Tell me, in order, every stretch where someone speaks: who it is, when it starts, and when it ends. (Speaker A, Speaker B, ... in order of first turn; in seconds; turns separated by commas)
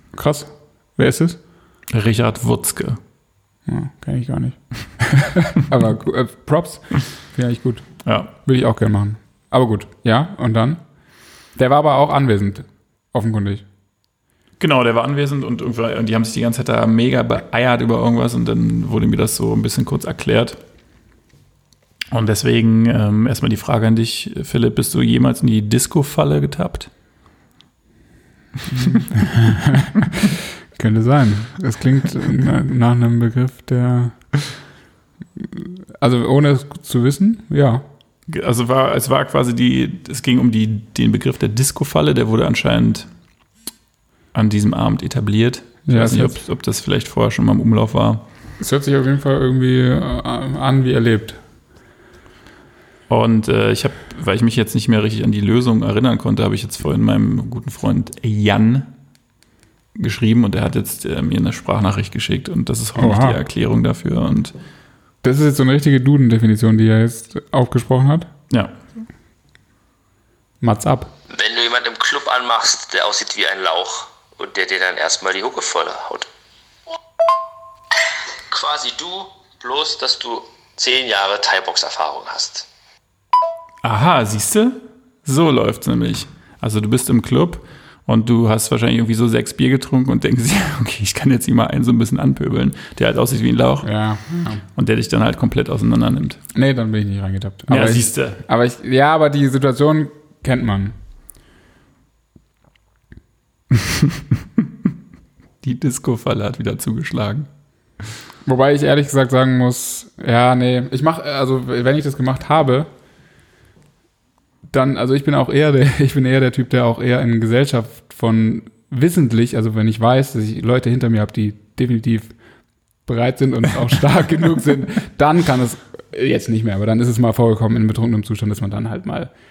Speaker A: 0.1-1.4, Speaker B: 1.9-3.0, Speaker A: 3.7-7.9, Speaker B: 8.1-8.3, Speaker A: 8.4-10.8, Speaker A: 11.6-13.7, Speaker B: 14.6-20.6, Speaker B: 22.1-26.9, Speaker A: 28.7-34.2, Speaker A: 35.4-37.8, Speaker B: 38.3-43.1, Speaker B: 44.3-48.2, Speaker A: 45.9-46.4, Speaker A: 48.6-51.4, Speaker B: 53.1-58.9, Speaker B: 60.0-64.5, Speaker A: 63.0-63.4, Speaker A: 65.2-68.3, Speaker A: 70.6-71.1, Speaker C: 71.3-76.3, Speaker C: 78.5-82.7, Speaker B: 83.8-93.9, Speaker A: 93.8-94.6, Speaker B: 94.7-96.4, Speaker A: 96.5-101.0, Speaker B: 97.7-98.4, Speaker B: 103.8-104.2, Speaker B: 105.6-107.5, Speaker A: 108.5-112.9, Speaker A: 114.7-122.3, Speaker A: 123.1-129.3